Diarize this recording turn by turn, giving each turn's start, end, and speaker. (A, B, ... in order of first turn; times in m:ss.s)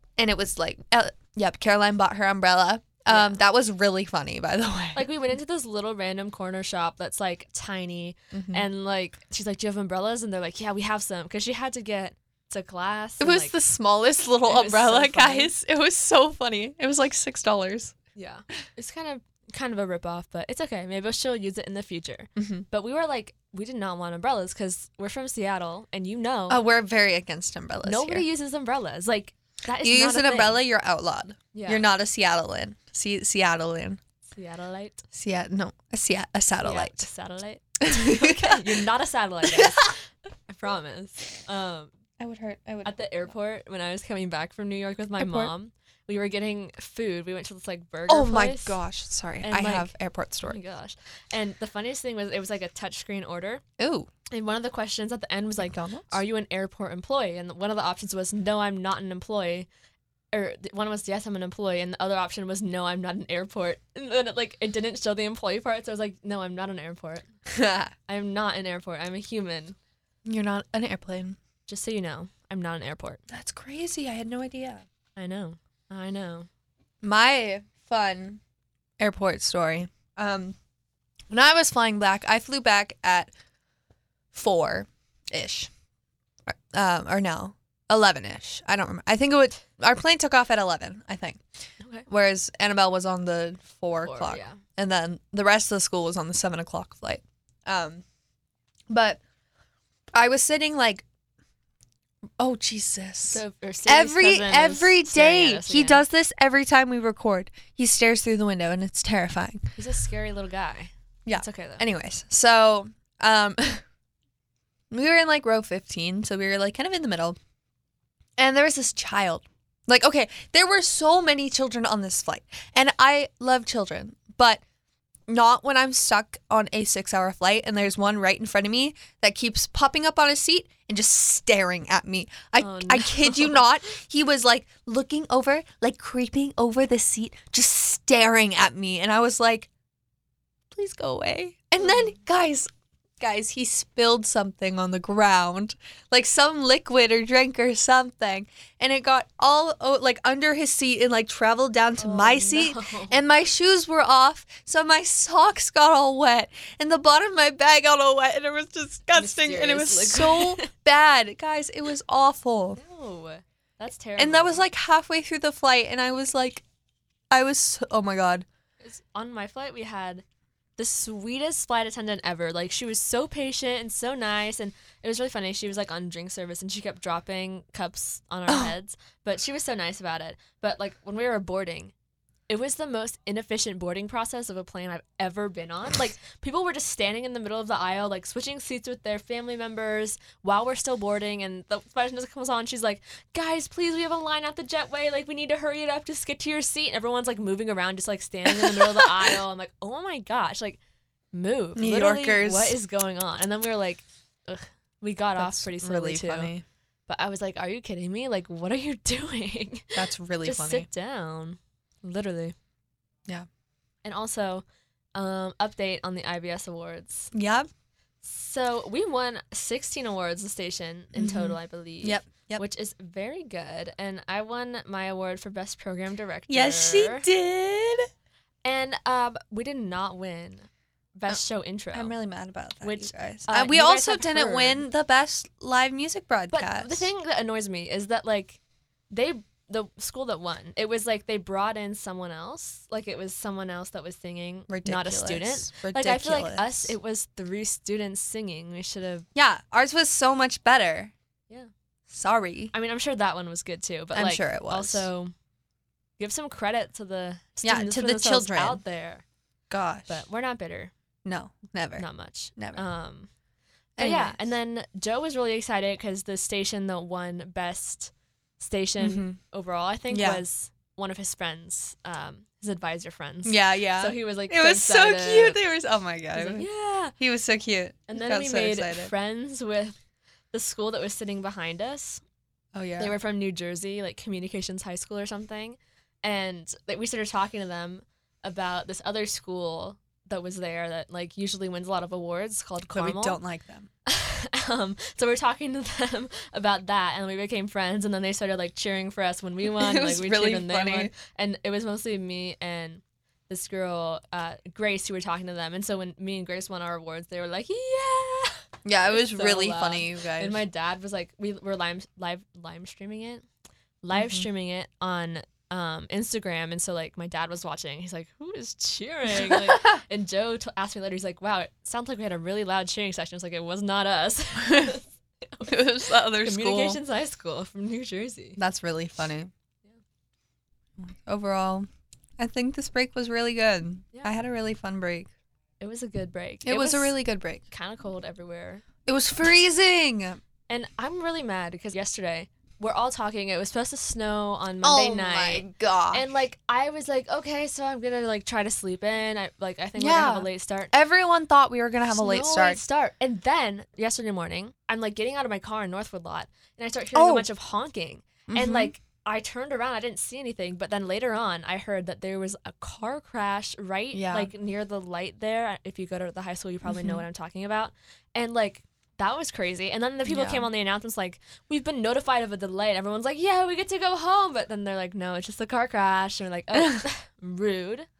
0:00.2-0:05.1 A
0:03.1-0:03.4 B
0:04.9-0:13.5 B
0:08.3-0:08.7 A
0:13.2-0:18.0 A
0:14.4-0:15.5 B
0:18.1-0:26.6 B
0:22.4-0:22.7 A
0:26.5-0:28.2 A
0:27.8-0:30.6 B
0:29.8-0:34.0 A
0:31.5-0:31.9 B
0:34.3-0:35.0 B
0:35.1-0:37.1 A
0:36.6-0:41.9 B
0:37.8-0:38.8 A
0:39.4-0:39.9 A
0:42.2-0:43.3 A
0:42.8-0:48.8 B
0:45.2-0:45.5 A
0:48.1-0:50.6 A
0:49.4-0:49.9 B
0:50.4-0:53.6 B
0:53.8-0:54.1 A
0:54.3-0:59.7 B
0:55.6-0:56.2 A
1:00.3-1:07.3 B
1:07.5-1:07.9 A
1:08.1-1:09.8 B
1:10.2-1:11.4 A
1:11.7-1:13.2 B
1:13.3-1:14.8 A
1:15.2-1:16.5 B
1:17.0-1:18.4 A
1:19.0-1:20.6 A
1:21.3-1:23.3 A
1:24.3-1:25.7 A
1:26.5-1:31.4 A
1:31.8-1:32.0 B
1:32.1-1:38.0 A
1:34.0-1:34.6 B
1:38.9-1:39.2 A
1:40.1-1:41.0 A
1:42.4-1:49.7 A
1:43.3-1:46.0 B
1:49.8-1:51.8 B
1:51.2-1:53.8 A
1:54.9-1:57.4 A
1:58.4-2:04.6 A
2:05.3-2:19.7 A
2:12.6-2:13.6 B
2:20.7-2:42.8 A
2:21.8-2:22.1 B
2:32.0-2:33.2 B
2:39.1-2:40.7 B
2:42.8-2:44.6 B
2:44.2-2:46.6 A
2:47.3-2:48.4 A
2:48.8-2:50.2 B
2:50.8-3:01.9 B
2:58.5-2:58.7 A
3:02.5-3:20.8 B
3:18.5-3:19.4 A
3:21.3-3:26.5 B
3:21.8-3:22.8 A
3:25.4-3:26.6 A
3:27.1-3:32.5 B
3:29.9-3:30.9 A
3:34.0-3:34.6 B
3:35.1-3:37.3 B
3:37.3-3:37.7 A
3:38.2-3:47.3 B
3:41.1-3:42.6 A
3:46.5-3:48.1 A
3:48.6-3:52.2 B
3:51.9-3:57.1 A
3:52.8-3:54.8 B
3:56.5-3:58.6 B
3:59.1-4:09.3 B
4:04.7-4:06.9 A
4:09.3-4:11.1 A
4:12.1-4:12.7 A
4:12.7-4:15.3 B
4:14.1-4:15.0 A
4:16.2-4:19.2 B
4:17.6-4:18.8 A
4:19.7-4:20.2 A
4:20.1-4:20.9 B
4:21.2-4:22.0 A
4:22.0-4:23.3 B
4:22.6-4:22.8 A
4:24.0-4:24.4 A
4:24.0-4:35.6 B
4:29.0-4:29.4 A
4:30.1-4:30.4 A
4:33.4-4:36.7 A
4:36.3-4:37.1 B
4:37.2-4:39.1 A
4:38.1-4:40.0 B
4:40.5-4:42.2 B
4:42.7-4:43.1 A
4:43.0-4:53.4 B
4:52.9-4:53.9 A
4:54.0-5:13.4 B
4:59.6-5:01.1 A
5:08.8-5:10.6 A
5:14.0-5:28.6 B
5:14.1-5:14.4 A
5:19.3-5:20.0 A
5:24.6-5:25.0 A
5:25.7-5:27.0 A
5:28.6-5:29.5 A
5:31.0-5:35.3 A
5:35.8-5:37.2 B
5:36.6-5:37.6 A
5:37.7-5:38.8 B
5:39.0-5:40.4 A
5:40.7-5:50.9 B
5:44.8-5:46.3 A
5:50.0-5:52.8 A
5:52.1-6:18.1 B
5:57.1-5:57.5 A
5:58.5-5:58.9 A
6:04.1-6:04.5 A
6:06.8-6:07.2 A
6:10.3-6:10.7 A
6:16.7-6:17.0 A